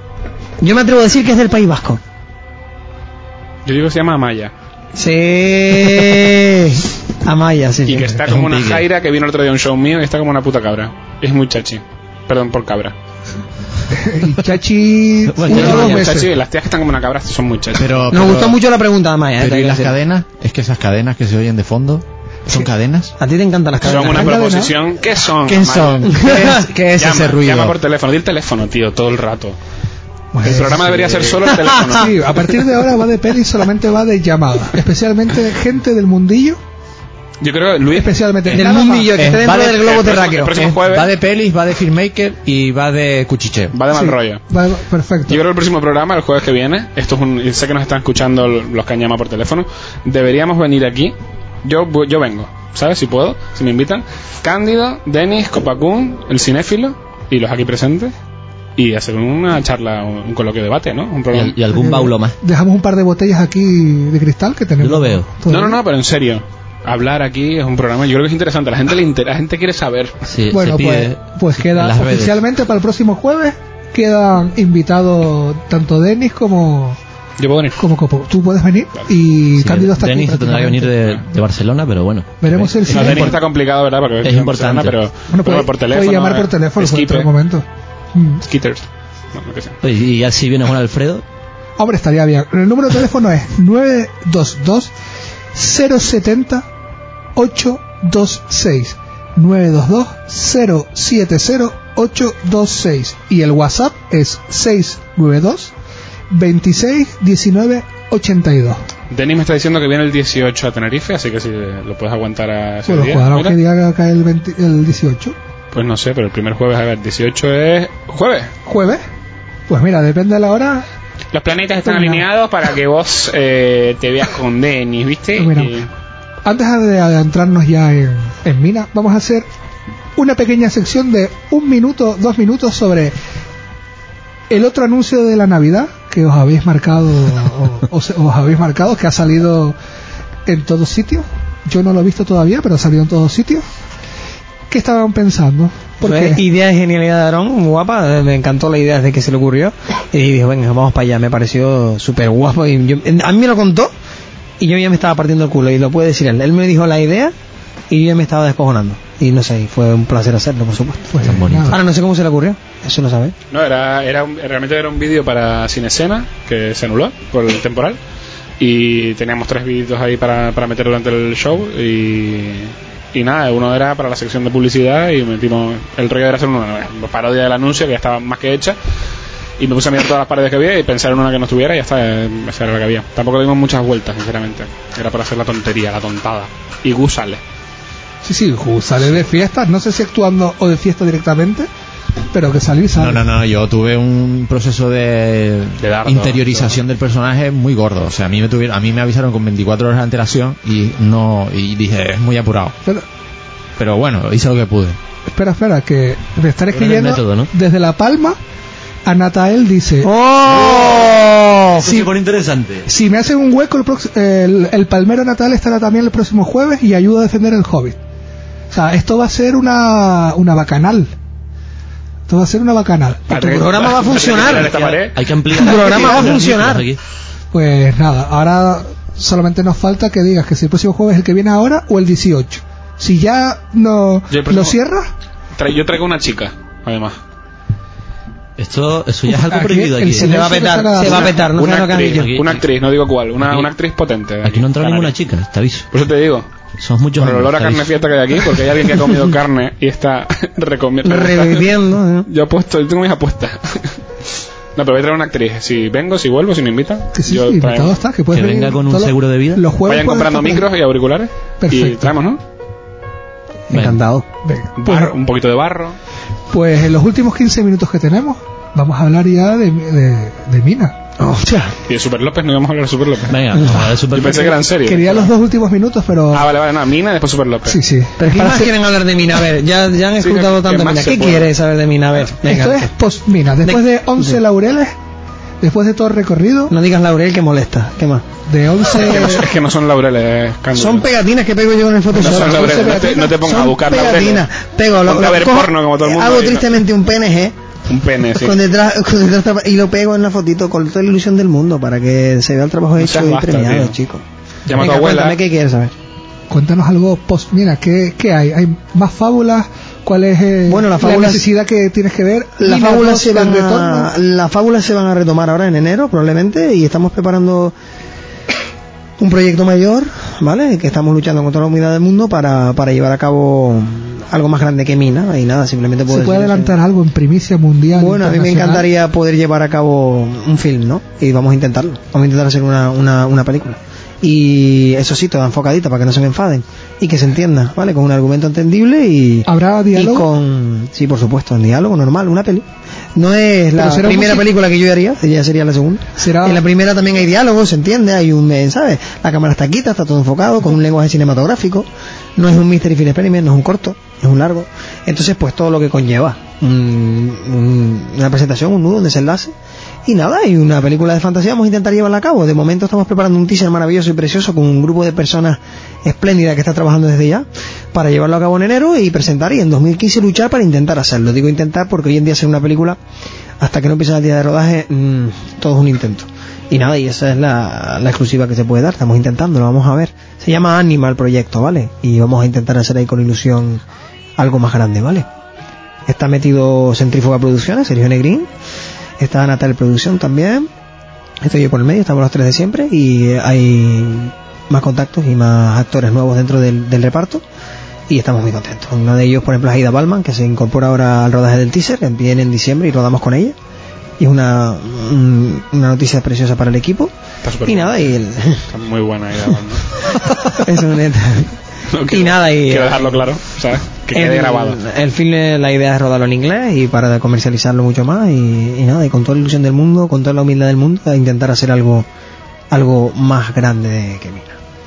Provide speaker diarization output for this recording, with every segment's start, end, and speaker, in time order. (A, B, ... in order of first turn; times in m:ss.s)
0:00.6-0:02.0 A
0:03.6-0:04.5 B
0:05.0-0:08.1 A
0:07.9-0:12.9 B
0:08.3-0:08.8 C
0:13.9-0:16.3 D
0:15.3-0:16.1 C
0:15.5-0:18.1 B
0:17.8-0:18.6 E
0:18.1-0:20.0 A
0:19.4-0:23.1 E
0:23.2-0:24.4 A
0:23.8-0:29.6 B
0:23.9-0:24.8 D
0:25.4-0:27.8 E
0:26.2-0:26.6 A
0:30.3-0:36.6 D
0:30.4-0:32.2 B
0:37.4-0:38.6 B
0:37.9-0:39.1 D
0:38.5-0:40.6 A
0:39.1-0:43.8 E
0:39.6-0:41.1 B
0:43.7-0:44.4 B
0:43.9-0:45.4 D
0:45.3-0:58.1 B
0:58.8-1:01.6 B
1:01.3-1:02.4 C
1:01.7-1:05.8 D
1:04.8-1:05.3 C
1:05.5-1:10.1 B
1:10.2-1:12.4 C
1:10.5-1:17.0 D
1:17.4-1:17.8 B
1:17.8-1:21.0 D
1:19.6-1:23.4 C
1:22.4-1:23.4 D
1:22.9-1:27.3 B
1:24.2-1:25.0 C
1:25.3-1:28.4 D
1:28.4-1:29.8 B
1:29.8-1:31.2 C
1:31.8-1:34.9 D
1:35.5-1:36.7 D
1:37.3-1:45.7 D
1:46.3-1:48.8 D
1:49.1-1:53.6 B
1:52.9-1:55.3 D
1:55.7-1:58.5 B
1:58.6-1:59.0 D
1:59.7-2:00.9 D
2:01.3-2:05.9 B
2:01.8-2:02.2 D
2:05.3-2:05.7 D
2:06.4-2:09.5 D
2:10.2-2:13.1 D
2:14.5-2:19.8 D
2:20.4-2:23.6 D
2:24.7-2:26.4 D
2:26.0-2:33.9 A
2:34.6-2:37.3 A
2:37.9-2:41.1 A
2:41.1-2:41.8 D
2:41.2-2:41.8 C
2:41.7-2:43.3 A
2:43.5-2:48.0 B
2:48.6-2:58.8 B
2:59.6-3:07.4 B
3:08.2-3:11.7 D
3:12.3-3:13.2 D
3:13.0-3:22.7 E
3:15.8-3:16.8 B
3:23.8-3:25.0 E
3:25.3-3:28.4 D
3:26.7-3:27.5 C
3:29.0-3:30.1 D
3:30.0-3:31.8 A
3:30.5-3:31.1 C
3:31.8-3:32.8 C
3:31.8-3:32.1 D
3:32.8-3:38.0 D
3:38.7-3:41.1 D
3:42.3-3:43.4 D
3:43.3-3:45.2 B
3:43.3-3:44.8 A
3:44.3-3:47.0 C
3:45.5-3:46.8 A
3:47.5-3:55.1 D
3:54.3-3:54.8 B
3:55.6-3:57.2 B
3:58.6-4:00.5 C
3:59.2-4:01.4 D
4:00.1-4:02.3 A
4:01.1-4:02.6 C
4:01.1-4:05.1 B
4:03.4-4:03.7 C
4:04.4-4:05.9 C
4:05.9-4:06.5 B
4:06.8-4:07.9 C
4:07.2-4:11.7 B
4:11.0-4:12.3 A
4:12.3-4:14.0 B
4:14.8-4:18.0 B
4:17.1-4:20.7 D
4:18.3-4:19.6 C
4:19.8-4:22.4 B
4:21.6-4:22.1 D
4:23.7-4:24.2 A
4:23.7-4:24.0 C
4:24.4-4:25.2 D
4:24.8-4:26.0 B
4:26.5-4:31.0 D
4:31.2-4:31.7 A
4:31.9-4:33.4 B
4:33.3-4:34.6 C
4:34.1-4:35.3 B
4:34.8-4:36.5 D
4:36.3-4:37.8 B
4:37.6-4:38.7 D
4:38.2-4:42.9 A
4:40.2-4:41.5 B
4:42.4-4:44.9 D
4:43.6-4:44.4 A
4:45.6-4:46.7 D
4:46.7-4:48.2 A
4:48.5-4:49.5 D
4:49.0-4:51.1 B
4:50.7-4:57.5 A
4:52.1-4:53.6 D
4:52.2-4:54.5 B
4:55.0-4:56.8 B
4:57.9-4:58.6 B
4:58.4-5:04.2 A
5:03.0-5:03.9 B
5:04.7-5:05.4 B
5:04.8-5:05.9 A
5:06.5-5:14.1 D
5:10.7-5:11.4 A
5:12.6-5:17.7 A
5:19.2-5:26.8 A
5:26.1-5:28.9 D
5:27.9-5:59.5 A
5:39.4-5:40.3 D
5:43.8-5:44.5 D
5:46.2-5:46.6 D
6:00.0-6:13.0 A
6:13.6-6:23.8 A
6:24.4-6:25.3 A
6:26.1-6:28.5 A
6:29.2-6:30.7 A
6:31.4-6:37.4 A
6:38.1-6:43.5 A
6:44.2-6:47.1 A
6:47.4-6:48.1 B
6:47.6-6:48.6 A
6:48.6-6:50.0 B
6:50.5-6:51.5 A
6:51.9-6:54.8 B
6:52.1-6:53.3 A
6:54.1-7:02.0 A
7:02.7-7:04.6 A